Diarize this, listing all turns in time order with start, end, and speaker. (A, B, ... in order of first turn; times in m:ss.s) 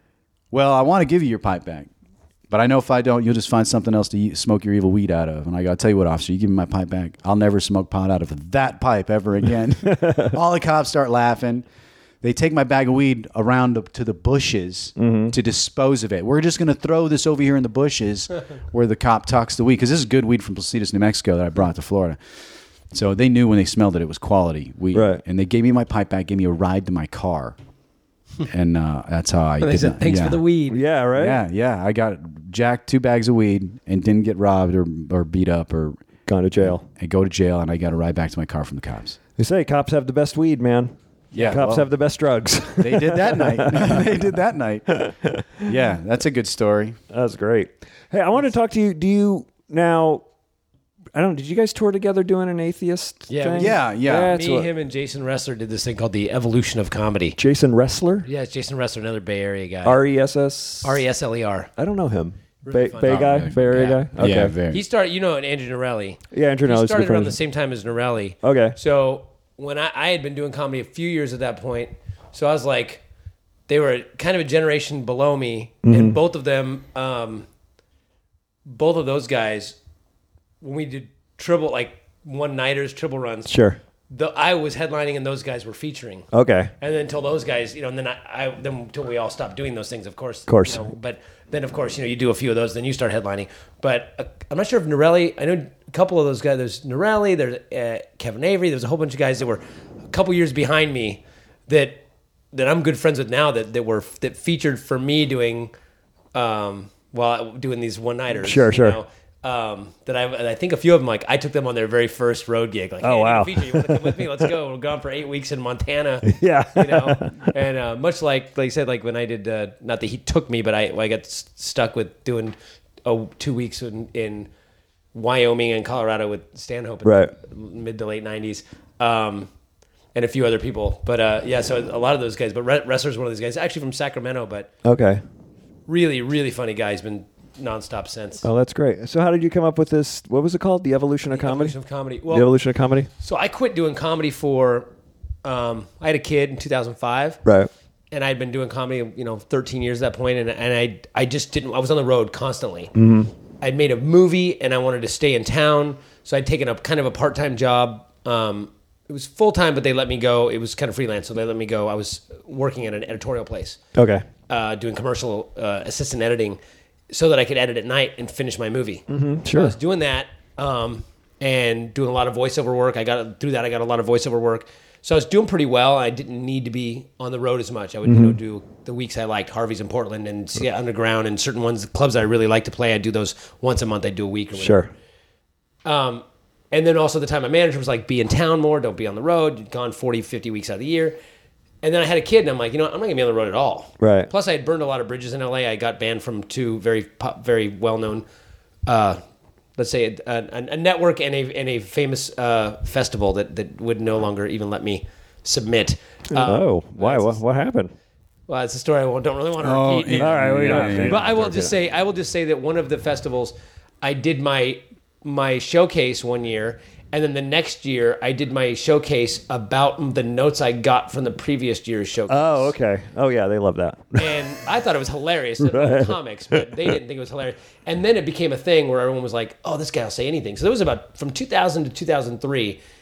0:00.5-0:01.9 A
0:02.5-0:11.6 A
0:12.2-0:22.2 A
0:15.0-0:15.3 B
0:22.9-0:27.6 A
0:24.9-0:25.2 B
0:28.4-0:30.4 A
0:29.6-0:30.8 C
0:30.7-0:31.4 B
0:31.2-0:36.0 A
0:36.2-0:36.8 B
0:36.6-0:39.2 A
0:39.4-0:44.1 B
0:41.3-0:41.9 A
0:42.8-0:47.0 A
0:44.9-0:45.7 B
0:47.1-0:50.2 B
0:51.1-0:54.7 B
0:53.3-0:57.4 C
0:53.6-0:54.3 A
0:57.4-0:58.2 B
0:58.2-1:00.0 C
0:59.8-1:01.0 B
1:00.8-1:01.7 C
1:01.8-1:04.5 B
1:02.6-1:13.0 C
1:03.0-1:04.8 A
1:06.3-1:07.4 B
1:08.4-1:08.8 B
1:13.7-1:17.5 C
1:15.8-1:16.2 B
1:18.6-1:19.8 C
1:20.6-1:26.3 C
1:23.5-1:23.8 B
1:26.3-1:26.7 B
1:26.8-1:42.0 C
1:30.5-1:30.8 B
1:42.5-1:45.7 C
1:46.3-2:04.5 C
1:48.4-1:49.0 B
1:53.0-1:54.3 B
1:56.2-1:57.5 B
2:05.1-2:09.5 C
2:07.0-2:07.3 B
2:10.1-2:14.7 C
2:14.8-2:15.2 B
2:15.9-2:18.4 C
2:18.4-2:21.8 B
2:21.3-2:22.5 C
2:22.3-2:23.1 B
2:23.2-2:24.9 C
2:25.4-2:27.4 C
2:27.4-2:27.7 B
2:28.1-2:33.0 C
2:33.0-2:33.3 B
2:33.6-2:43.8 C
2:43.9-2:44.2 B
2:44.5-2:46.6 C
2:47.1-3:04.8 C
2:49.1-2:49.7 B
2:58.0-2:58.4 B
3:04.6-3:04.9 B
3:05.8-3:11.2 C
3:11.8-3:18.2 C
3:14.0-3:14.3 B
3:18.9-3:19.2 C
3:19.8-3:27.4 C
3:26.4-3:27.9 B
3:28.5-3:42.7 C
3:29.6-3:31.3 A
3:30.2-3:31.7 B
3:42.3-3:44.6 B
3:44.2-3:52.8 C
3:45.6-3:46.9 B